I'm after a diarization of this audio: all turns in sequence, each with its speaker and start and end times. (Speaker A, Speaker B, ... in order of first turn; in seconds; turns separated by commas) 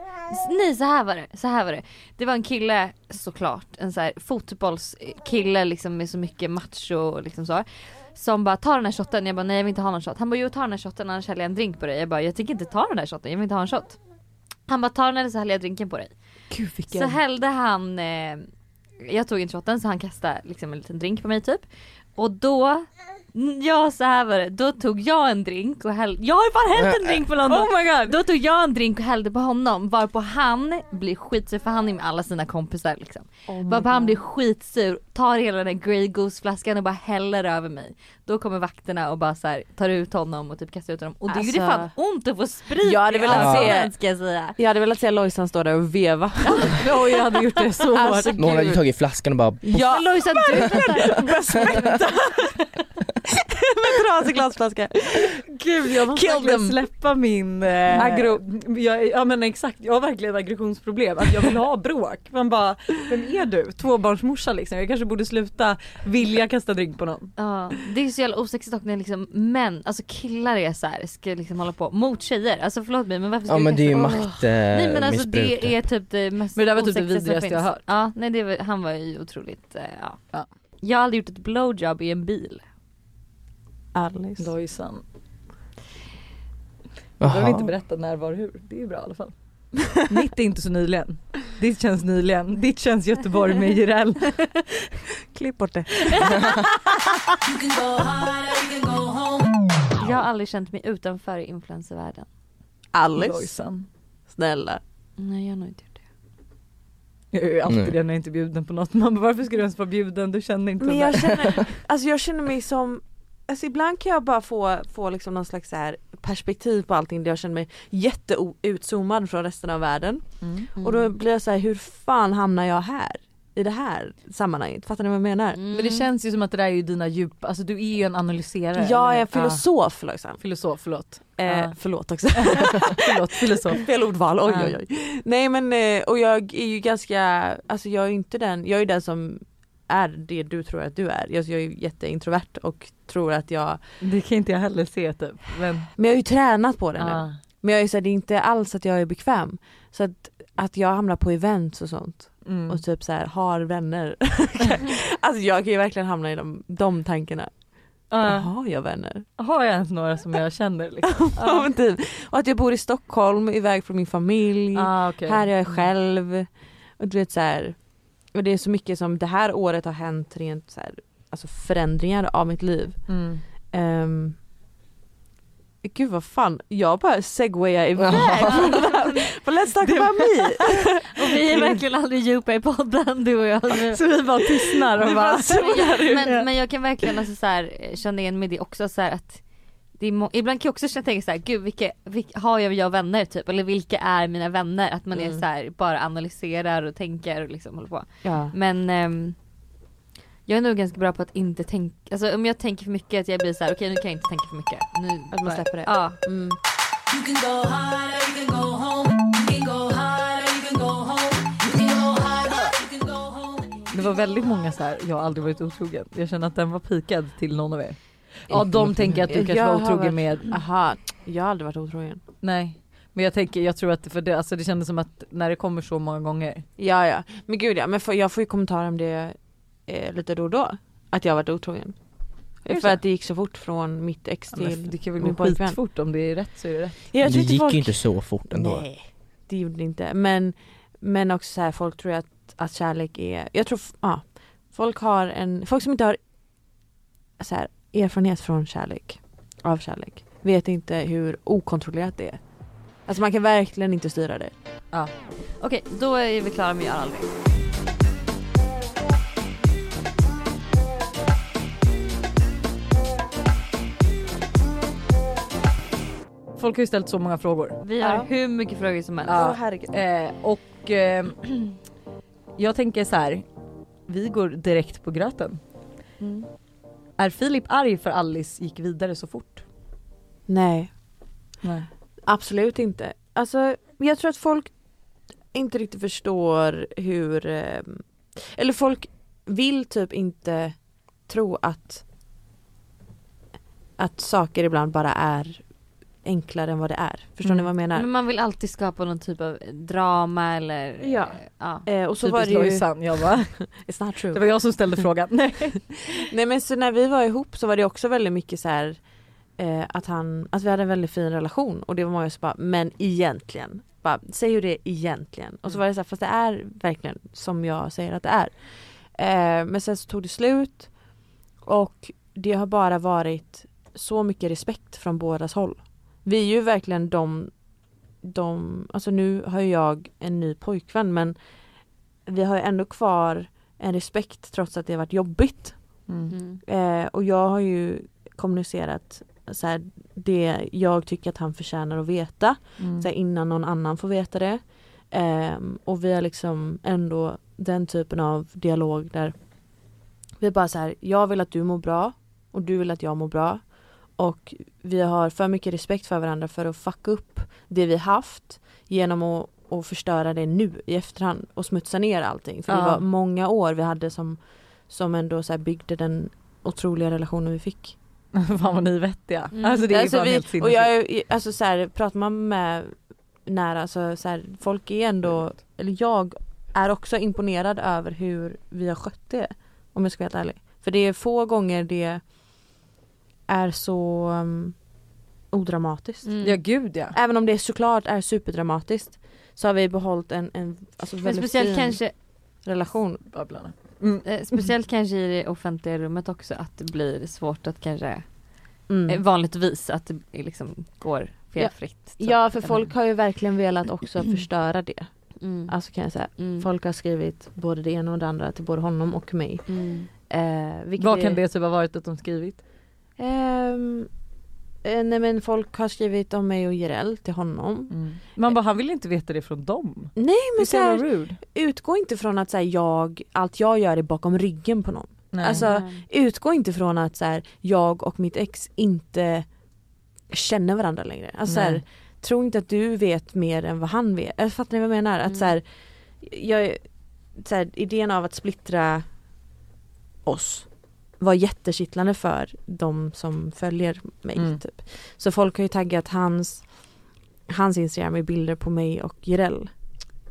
Speaker A: 0.3-14.0, Speaker A: 14.7-16.1, Speaker B: 16.5-17.2, Speaker A: 16.9-18.5, Speaker A: 19.0-44.6, Speaker C: 26.8-27.2, Speaker B: 27.5-28.1, Speaker D: 27.5-27.9, Speaker B: 33.5-34.2, Speaker B: 41.3-41.9, Speaker B: 42.8-44.0, Speaker C: 43.3-43.8, Speaker B: 44.6-46.8, Speaker A: 46.5-47.6, Speaker D: 46.6-48.4, Speaker B: 47.9-48.9, Speaker C: 48.4-50.6, Speaker B: 49.6-52.7, Speaker A: 49.8-51.8, Speaker B: 53.5-56.8, Speaker D: 55.5-67.3, Speaker B: 57.9-58.4, Speaker A: 67.4-80.3, Speaker C: 73.5-75.7, Speaker D: 76.6-77.8, Speaker A: 80.8-82.6, Speaker B: 83.9-84.5, Speaker D: 84.4-85.0, Speaker C: 87.2-87.7, Speaker D: 87.2-94.6, Speaker B: 95.3-96.6, Speaker E: 97.8-99.0, Speaker A: 100.0-102.3, Speaker B: 102.9-103.6, Speaker D: 103.2-103.9, Speaker B: 104.3-104.8, Speaker A: 105.2-106.0, Speaker D: 107.3-111.7, Speaker C: 107.7-107.9, Speaker B: 110.8-125.6, Speaker D: 120.4-120.7, Speaker A: 120.8-121.1, Speaker A: 125.5-126.1, Speaker D: 125.7-129.7, Speaker B: 128.8-130.4, Speaker D: 130.4-133.9, Speaker B: 131.4-143.8, Speaker D: 134.4-134.8, Speaker D: 144.0-145.9, Speaker B: 145.9-157.5, Speaker D: 147.0-147.4, Speaker D: 152.4-152.8, Speaker D: 158.1-158.5, Speaker B: 158.2-159.3, Speaker D: 159.4-161.3, Speaker B: 161.2-166.5, Speaker D: 164.7-165.9, Speaker B: 167.0-167.8, Speaker B: 168.3-173.2, Speaker D: 173.1-173.4, Speaker B: 173.7-174.4, Speaker B: 175.8-181.4, Speaker C: 178.0-178.7, Speaker A: 178.1-179.2, Speaker D: 179.8-180.7, Speaker A: 181.1-184.0, Speaker D: 181.5-181.8, Speaker D: 183.9-186.5, Speaker B: 184.7-186.4, Speaker A: 185.5-199.4, Speaker B: 195.2-195.4, Speaker B: 198.2-198.6, Speaker A: 200.5-206.2, Speaker B: 205.3-206.6, Speaker E: 207.1-213.2, Speaker D: 213.9-220.6, Speaker C: 218.5-219.2, Speaker B: 219.3-222.2, Speaker D: 222.4-226.7, Speaker B: 226.8-232.0, Speaker B: 232.6-235.8, Speaker D: 232.7-233.0, Speaker D: 234.5-237.1, Speaker B: 237.1-246.2, Speaker C: 237.2-238.9, Speaker B: 247.4-252.4, Speaker B: 253.0-254.5, Speaker A: 255.6-257.3, Speaker D: 266.6-267.8, Speaker A: 267.8-269.4, Speaker B: 268.0-268.3, Speaker D: 269.2-271.8, Speaker B: 269.4-269.9, Speaker D: 272.6-273.4, Speaker D: 274.1-275.6, Speaker A: 276.2-276.5, Speaker D: 277.2-279.6, Speaker B: 280.5-280.9, Speaker D: 281.6-281.9, Speaker B: 282.2-284.7, Speaker B: 285.5-292.0, Speaker B: 294.0-295.6, Speaker B: 296.2-298.1, Speaker A: 297.9-301.9, Speaker B: 301.0-304.4, Speaker D: 302.2-303.7, Speaker D: 304.3-306.1, Speaker B: 306.1-309.0, Speaker B: 309.6-327.6, Speaker B: 328.2-331.4, Speaker B: 332.3-349.4, Speaker A: 336.3-336.6, Speaker D: 342.8-343.1, Speaker B: 350.4-368.0, Speaker D: 362.7-363.0, Speaker D: 368.4-370.9, Speaker A: 369.5-369.9, Speaker B: 369.9-382.2, Speaker B: 383.5-384.8, Speaker B: 385.5-386.3, Speaker A: 386.2-386.6, Speaker D: 386.4-387.2, Speaker B: 387.1-393.2, Speaker A: 391.2-392.1, Speaker D: 393.3-394.2, Speaker A: 394.2-402.9, Speaker B: 398.9-399.2, Speaker B: 401.6-411.4, Speaker A: 405.4-406.7, Speaker A: 409.7-410.1, Speaker D: 411.0-412.6, Speaker B: 413.2-414.1, Speaker B: 414.8-418.0, Speaker D: 417.9-421.4, Speaker B: 420.2-429.5, Speaker D: 425.3-425.7, Speaker A: 425.5-426.0, Speaker B: 430.3-435.6, Speaker D: 431.5-431.8, Speaker A: 435.3-435.5, Speaker B: 436.2-439.1, Speaker B: 440.2-446.7, Speaker D: 444.4-444.6, Speaker B: 447.5-449.7